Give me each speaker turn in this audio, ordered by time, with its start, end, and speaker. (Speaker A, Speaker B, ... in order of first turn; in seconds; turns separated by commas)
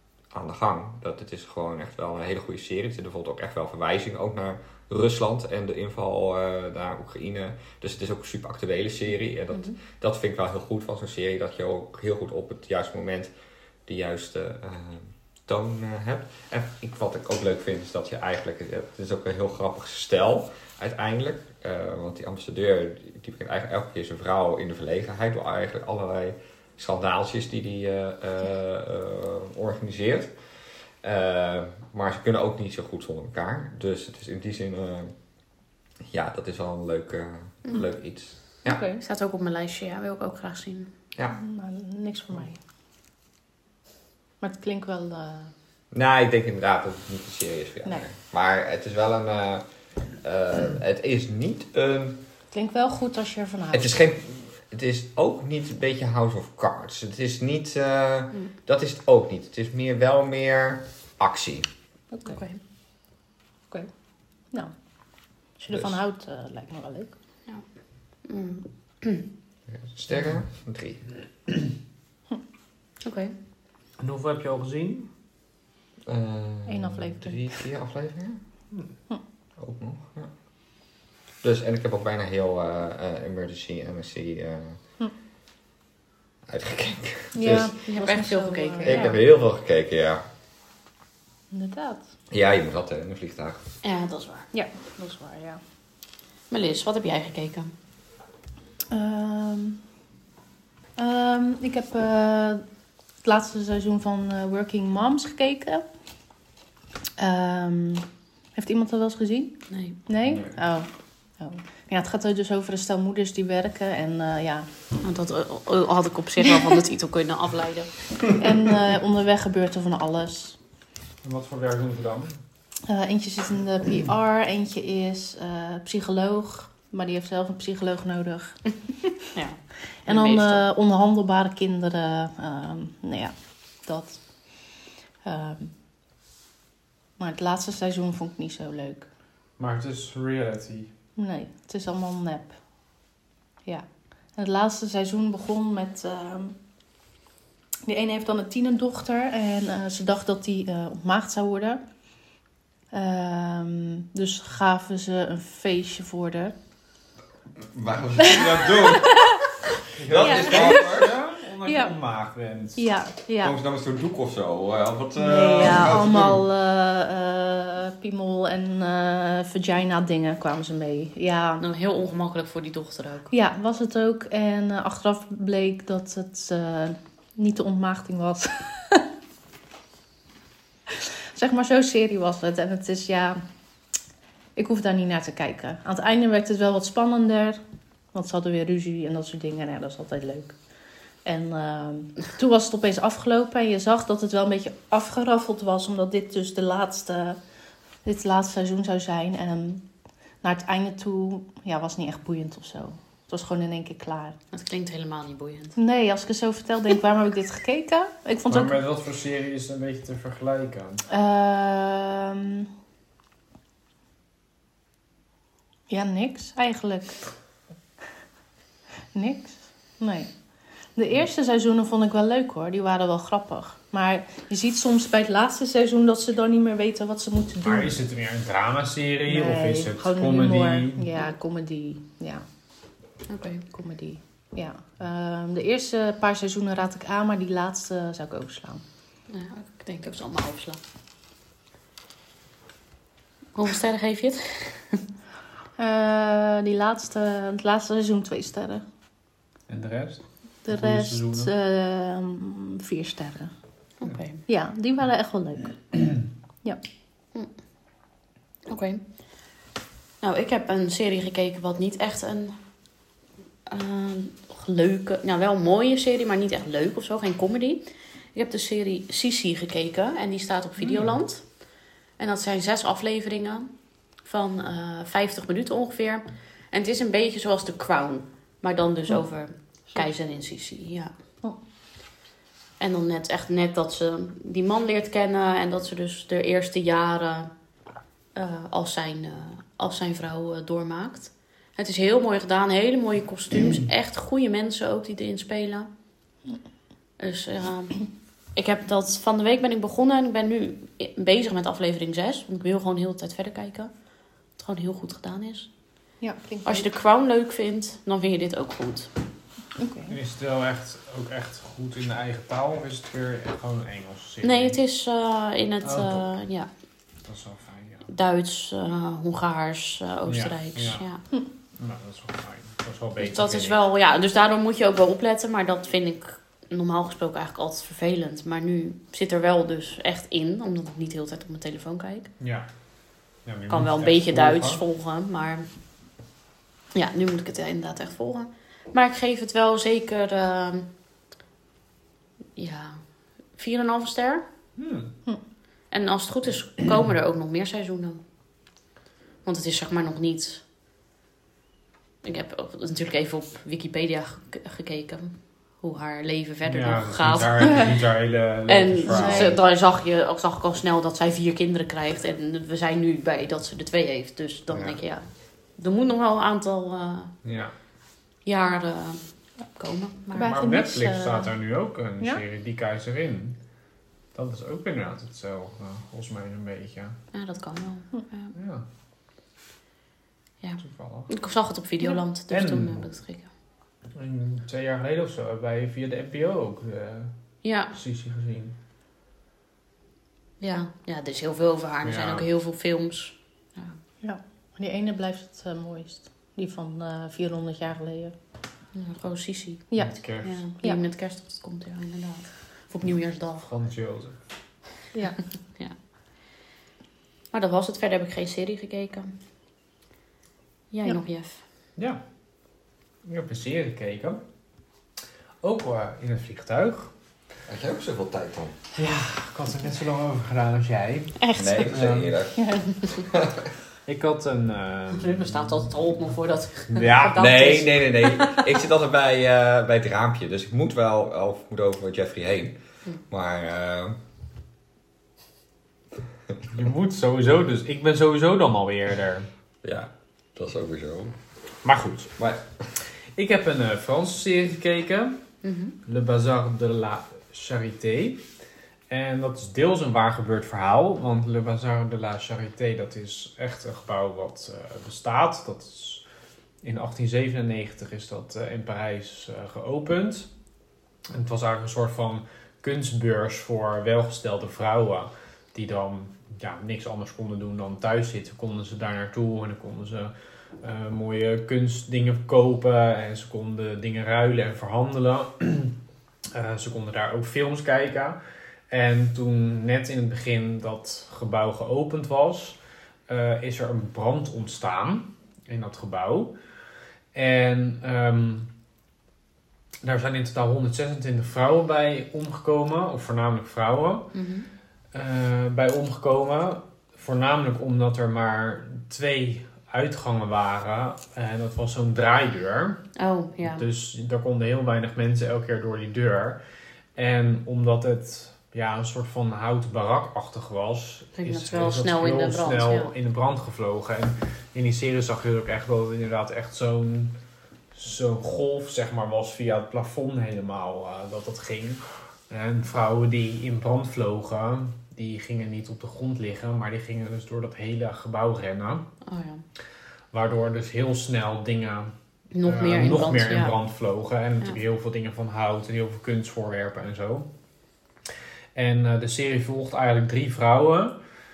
Speaker A: 0.3-13.3, Speaker A: 13.9-30.3, Speaker A: 31.0-35.1, Speaker A: 36.1-38.8, Speaker B: 38.6-39.0, Speaker C: 39.0-40.9, Speaker B: 41.3-42.6, Speaker B: 44.4-45.5, Speaker A: 45.9-49.7, Speaker A: 50.2-52.2, Speaker B: 52.5-54.0, Speaker A: 53.7-61.7, Speaker B: 62.1-62.4, Speaker C: 62.2-62.6, Speaker B: 65.6-67.1, Speaker A: 65.7-66.0, Speaker C: 68.3-69.3, Speaker A: 69.7-71.0, Speaker C: 73.0-73.3, Speaker D: 74.0-75.1, Speaker A: 76.1-78.4, Speaker B: 76.7-77.5, Speaker A: 79.6-80.3, Speaker A: 81.4-84.8, Speaker A: 86.5-87.8, Speaker B: 87.3-89.2, Speaker C: 87.9-89.2, Speaker A: 88.8-90.2, Speaker B: 91.5-92.1, Speaker A: 92.3-93.6, Speaker C: 93.8-94.5, Speaker B: 94.5-95.6, Speaker C: 96.5-97.7, Speaker B: 98.9-99.8, Speaker B: 101.0-102.6, Speaker B: 103.2-105.8, Speaker B: 107.2-110.9, Speaker C: 109.7-110.0, Speaker B: 111.4-114.7, Speaker C: 115.0-117.9, Speaker B: 118.3-120.6, Speaker D: 121.2-122.4, Speaker B: 122.9-129.1, Speaker C: 129.3-130.6, Speaker B: 130.1-134.2, Speaker B: 135.2-135.7, Speaker B: 137.2-139.1, Speaker D: 139.6-140.9, Speaker B: 141.2-142.6, Speaker B: 144.4-146.6, Speaker B: 147.8-151.8, Speaker B: 152.9-156.5, Speaker A: 157.6-159.4, Speaker B: 158.2-159.6, Speaker A: 159.9-161.2, Speaker D: 160.1-162.8, Speaker B: 160.1-161.0, Speaker B: 161.7-161.9, Speaker B: 162.8-163.6, Speaker A: 163.4-166.4, Speaker B: 165.2-171.6, Speaker C: 171.6-173.3, Speaker B: 173.3-179.1, Speaker B: 180.9-183.4, Speaker B: 184.6-187.6, Speaker B: 188.1-190.6, Speaker B: 191.2-197.4, Speaker B: 198.1-199.8, Speaker B: 200.4-204.4, Speaker C: 204.5-205.8, Speaker B: 205.8-208.8, Speaker D: 208.5-211.0, Speaker B: 211.1-212.7, Speaker B: 215.9-217.2, Speaker B: 219.1-220.3, Speaker B: 221.0-227.9, Speaker D: 227.6-231.1, Speaker B: 229.3-232.4, Speaker C: 233.3-233.7, Speaker B: 233.7-238.8, Speaker C: 239.3-240.8, Speaker C: 243.6-245.0, Speaker B: 245.8-248.8, Speaker D: 249.7-251.5, Speaker B: 250.7-253.5, Speaker C: 254.0-254.4, Speaker B: 254.5-256.1, Speaker C: 258.7-259.0, Speaker C: 260.2-262.6, Speaker C: 263.7-271.4, Speaker D: 270.8-271.2, Speaker C: 272.2-273.7, Speaker C: 274.2-281.1, Speaker C: 282.8-287.5, Speaker C: 288.4-295.9, Speaker C: 297.2-303.9, Speaker C: 304.6-305.7, Speaker B: 306.2-306.9, Speaker C: 306.6-309.1, Speaker B: 309.8-310.2, Speaker D: 310.1-314.8, Speaker C: 314.4-316.7, Speaker D: 315.8-316.3, Speaker D: 317.2-318.1, Speaker C: 318.1-321.2, Speaker D: 320.3-321.1, Speaker D: 321.8-323.8, Speaker C: 323.2-332.3, Speaker D: 332.4-332.7, Speaker D: 333.4-334.8, Speaker C: 333.7-335.7, Speaker C: 336.9-340.9, Speaker C: 342.6-343.0, Speaker C: 343.6-344.4, Speaker D: 344.8-345.1, Speaker C: 345.9-348.2, Speaker C: 349.4-350.6, Speaker C: 352.2-357.9, Speaker D: 356.7-359.6, Speaker C: 358.7-365.3, Speaker B: 359.1-359.6, Speaker D: 364.7-365.0, Speaker C: 365.8-367.3, Speaker D: 367.4-367.7, Speaker C: 368.5-369.2, Speaker C: 369.7-370.6, Speaker B: 370.3-371.5, Speaker D: 370.4-373.6, Speaker D: 374.3-377.2, Speaker C: 377.3-378.5, Speaker D: 378.5-378.9, Speaker C: 380.6-383.5, Speaker D: 380.8-381.3, Speaker D: 382.5-383.1, Speaker D: 384.1-387.3, Speaker C: 387.6-387.9, Speaker D: 387.9-388.8, Speaker C: 390.6-394.0, Speaker D: 392.0-392.5, Speaker B: 394.2-398.3, Speaker C: 398.9-399.9, Speaker D: 400.0-400.6, Speaker C: 400.4-403.7, Speaker D: 403.6-404.4, Speaker C: 407.5-409.3, Speaker C: 410.9-411.6, Speaker D: 413.2-414.4, Speaker D: 415.6-417.1, Speaker A: 417.7-418.8, Speaker D: 419.0-422.4, Speaker C: 421.4-421.9, Speaker A: 421.5-423.7, Speaker D: 424.1-426.2, Speaker C: 425.1-428.7, Speaker D: 426.9-427.8, Speaker A: 427.4-432.8, Speaker A: 433.3-434.2, Speaker D: 436.7-439.5, Speaker A: 439.8-441.4, Speaker D: 441.8-442.4, Speaker A: 442.4-442.7, Speaker D: 443.4-445.4, Speaker C: 445.6-446.0, Speaker D: 446.1-448.5, Speaker D: 449.1-456.2, Speaker D: 456.8-460.5, Speaker D: 461.3-476.0, Speaker D: 476.5-478.4, Speaker D: 478.9-486.6, Speaker D: 487.3-488.7, Speaker D: 490.0-494.3, Speaker C: 494.3-494.7, Speaker D: 495.1-503.0, Speaker C: 503.2-503.9, Speaker D: 503.6-506.6, Speaker D: 507.2-517.4, Speaker C: 511.4-513.1, Speaker D: 517.9-529.1, Speaker C: 529.2-529.6, Speaker D: 530.3-537.5, Speaker C: 532.5-533.8, Speaker D: 538.8-541.2